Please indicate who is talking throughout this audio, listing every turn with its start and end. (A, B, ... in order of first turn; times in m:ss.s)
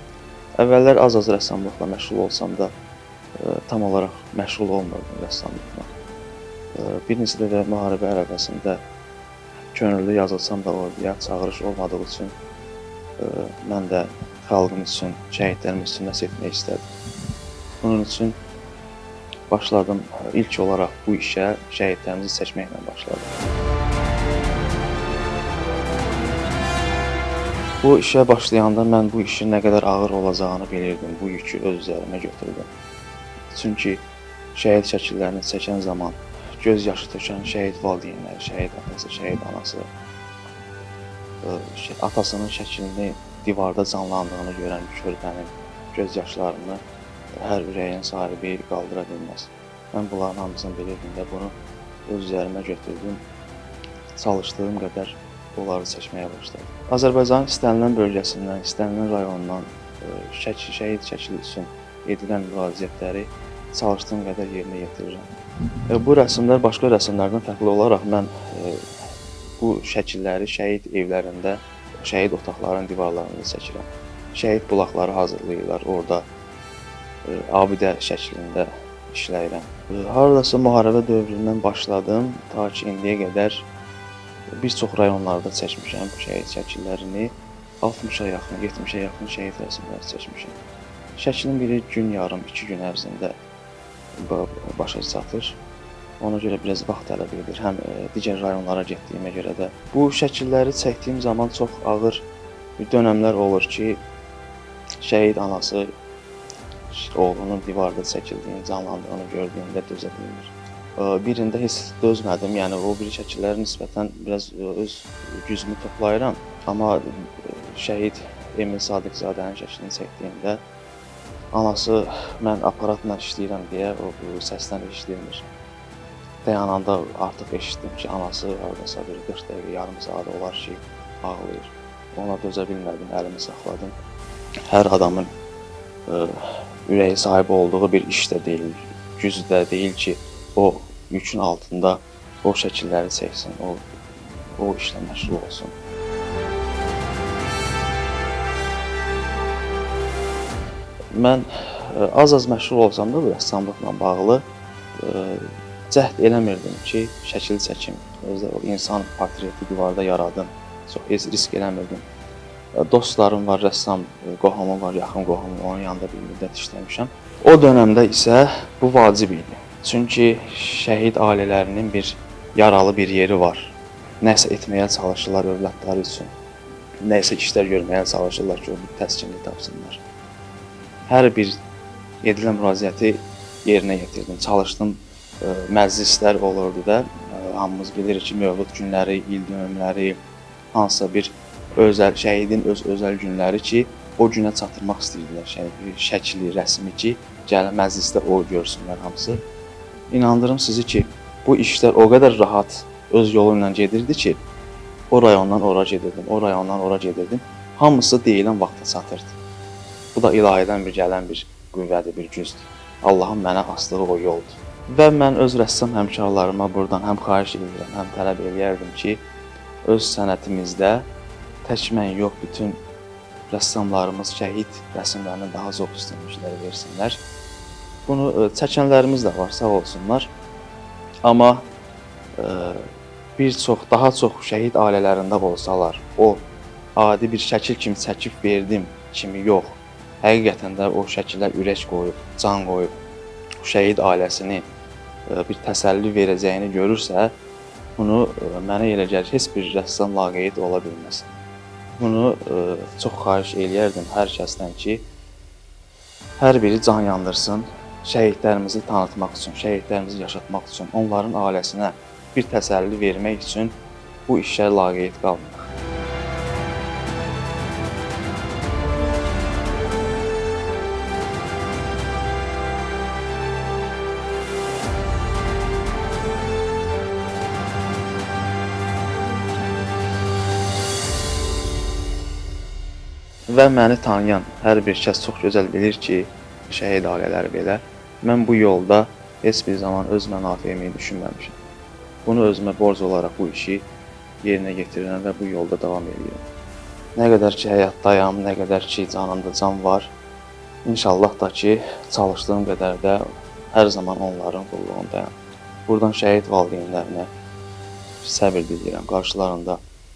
0:00.6-0:02.7 A
0:03.4-0:05.9 A
0:06.7-0:08.8 A
0:09.7-0:12.3 A
0:13.2-0:16.8 A
0:17.8-0:18.4 A
0:19.5-0:23.3 A
0:27.8-0:32.7 A
0:33.5-0:34.0 A
0:34.5-0:39.9 A
0:41.4-0:46.8 A
0:47.4-0:51.5 A
0:52.1-0:53.2 A
0:54.2-1:05.3 A
1:05.9-1:08.9 A
1:09.6-1:16.2 A
1:17.2-1:23.6 A
1:24.6-1:30.6 A
1:31.2-1:33.4 A
1:34.2-1:35.6 A
1:36.2-1:42.2 A
1:42.8-1:44.0 A
1:45.0-1:45.9 A
1:46.9-2:00.6 A
2:01.5-2:05.4 A
2:06.4-2:13.9 A
2:14.7-2:15.3 A
2:16.1-2:23.8 A
2:24.5-2:25.7 A
2:31.1-2:34.4 A
2:35.0-2:42.0 A
2:42.7-2:56.3 A
2:57.0-3:00.0 A
3:01.1-3:01.6 A
3:02.2-3:10.2 A
3:10.7-3:19.4 A
3:20.1-3:24.4 A
3:25.1-3:29.4 A
3:30.1-3:39.2 A
3:39.8-3:41.1 A
3:41.6-3:42.8 A
3:43.5-3:47.2 A
3:48.0-3:50.3 A
3:51.2-3:51.7 A
3:52.4-3:56.4 A
3:57.0-4:03.0 A
4:03.6-4:04.7 A
4:05.3-4:07.3 A
4:08.0-4:11.3 A
4:12.0-4:15.0 A
4:16.4-4:25.7 A
4:43.5-4:51.6 A
4:52.2-4:53.8 A
4:54.4-4:56.4 A
4:57.1-5:00.1 A
5:00.8-5:05.3 A
5:05.9-5:07.3 A
5:08.2-5:09.8 A